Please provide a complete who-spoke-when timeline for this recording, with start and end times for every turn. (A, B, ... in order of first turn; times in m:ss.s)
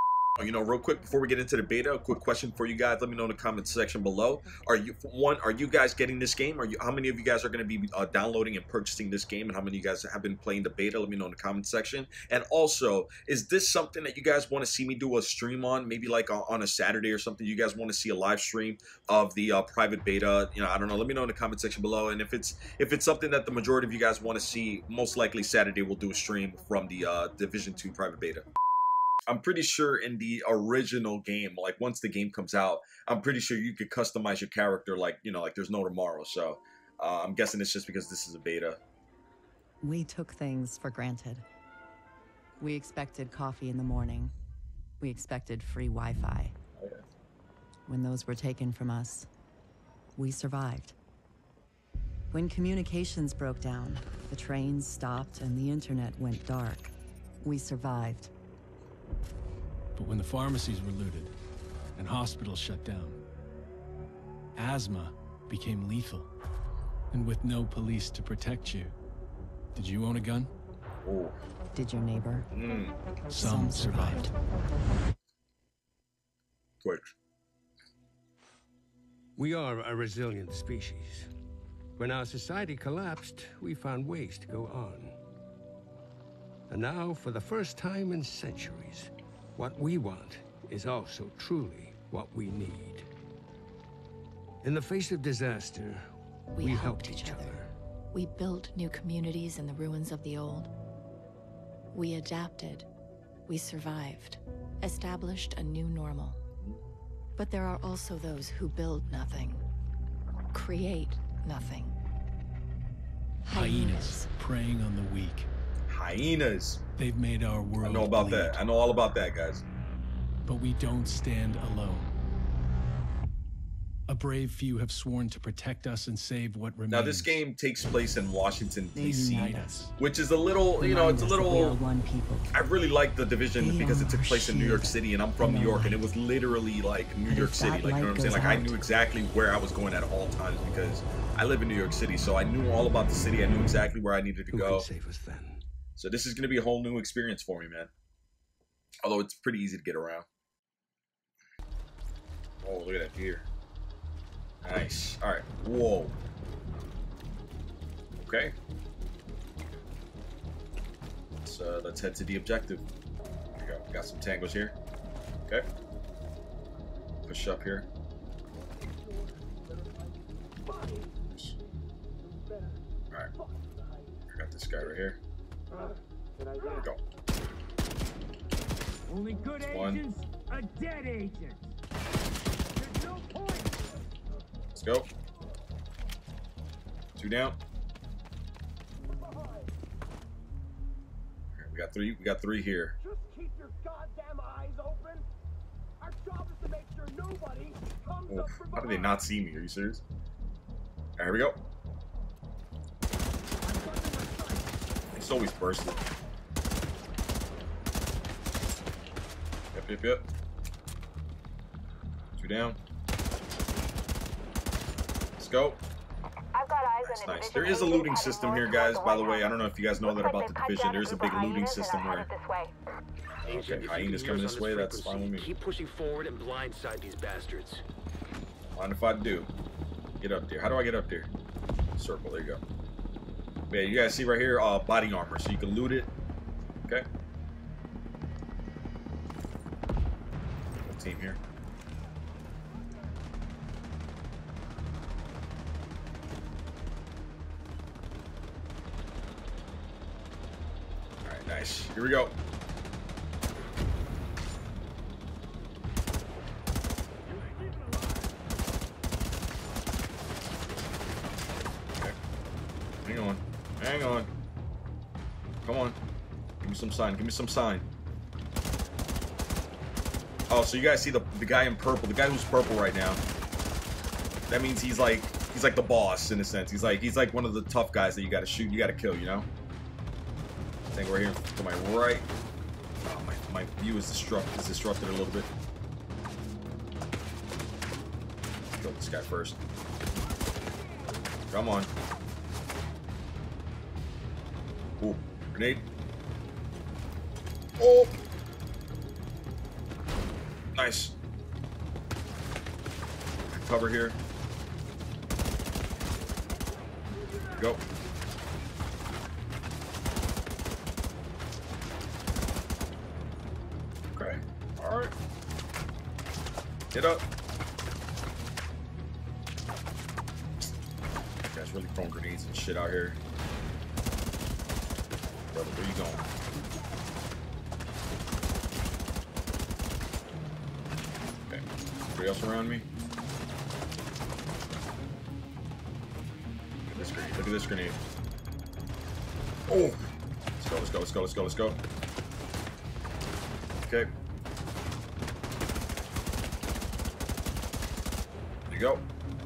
0:00.4-0:28.4 A
0:29.3-0:38.8 A
0:39.8-0:41.4 B
0:42.6-0:44.3 B
0:45.0-0:46.5 B
0:46.8-0:47.0 A
0:47.9-0:49.3 B
0:50.2-0:50.9 B
0:52.3-0:56.9 B
0:57.4-0:58.3 B
0:59.9-1:01.3 C
1:02.0-1:03.2 C
1:04.6-1:06.3 C
1:07.1-1:08.9 C
1:09.7-1:10.5 C
1:11.0-1:11.4 A
1:11.7-1:12.5 B
1:12.5-1:13.0 A
1:13.3-1:14.3 C
1:13.3-1:14.3 B
1:16.8-1:17.1 A
1:19.4-1:21.3 D
1:22.0-1:25.2 D
1:26.7-1:33.1 D
1:34.6-1:37.7 D
1:36.5-1:40.7 E
1:41.9-1:42.9 E
1:43.5-1:46.4 E
1:47.4-1:49.6 E
1:50.5-1:52.0 E
1:53.4-1:54.2 E
1:53.5-1:55.5 C
1:55.9-1:56.8 A
1:57.0-1:58.6 C
1:57.8-1:59.6 A
2:00.4-2:02.1 C
2:04.1-2:07.4 C
2:06.9-2:11.8 A
2:08.9-2:09.8 B
2:09.0-2:09.9 C
2:10.8-2:12.5 B
2:12.5-2:24.9 A
2:13.5-2:16.1 B
2:17.2-2:18.8 B
2:24.5-2:25.6 D
2:26.0-2:27.9 A
2:29.0-2:30.2 A
2:32.6-2:33.4 A
2:34.6-2:36.2 A
2:38.2-2:38.5 A
2:41.4-2:42.8 A
2:43.6-2:44.8 A
2:47.3-2:47.9 A
2:50.7-2:51.1 F
2:51.3-2:51.6 A
2:54.3-2:55.2 A
2:56.5-2:56.8 F
2:56.7-2:57.0 A
2:59.1-3:01.7 F
2:59.6-3:00.0 A
3:02.8-3:03.9 F
3:04.7-3:05.1 A
3:07.2-3:07.6 A
3:11.5-3:13.0 A
3:13.0-3:15.2 F
3:16.0-3:19.2 F
3:18.3-3:20.0 A
3:21.2-3:21.6 A
3:23.7-3:24.6 F
3:25.1-3:26.0 A
3:29.7-3:30.2 A
3:32.4-3:32.8 A
3:35.4-3:35.8 A
3:36.5-3:42.7 G
3:37.0-3:42.3 A
3:43.4-3:45.5 A
3:43.4-3:47.8 H
3:48.7-3:49.5 A
3:50.2-3:51.3 A
3:52.0-3:52.6 A
3:53.7-3:56.1 A
4:00.8-4:01.4 A
4:11.2-4:12.3 A
4:17.6-4:18.1 F
4:23.0-4:24.3 A
4:25.6-4:26.0 A
4:26.6-4:27.8 A
4:30.5-4:33.2 A
4:34.5-4:39.5 A
4:40.9-4:42.3 A
4:43.0-4:45.5 A
4:48.8-4:49.6 A
4:50.3-4:51.1 F
4:51.5-4:51.9 A
4:55.0-4:55.8 A
4:57.8-4:58.2 A
5:00.8-5:01.2 A
5:03.5-5:04.2 A
5:06.9-5:07.4 F
5:07.5-5:07.8 A
5:14.1-5:15.1 A
5:16.9-5:17.2 A
5:21.5-5:23.2 A
5:25.5-5:26.3 A
5:32.1-5:32.9 A
5:36.9-5:38.0 A
5:39.7-5:40.1 A
5:40.6-5:41.8 A
5:43.8-5:44.1 A
5:48.7-5:49.0 A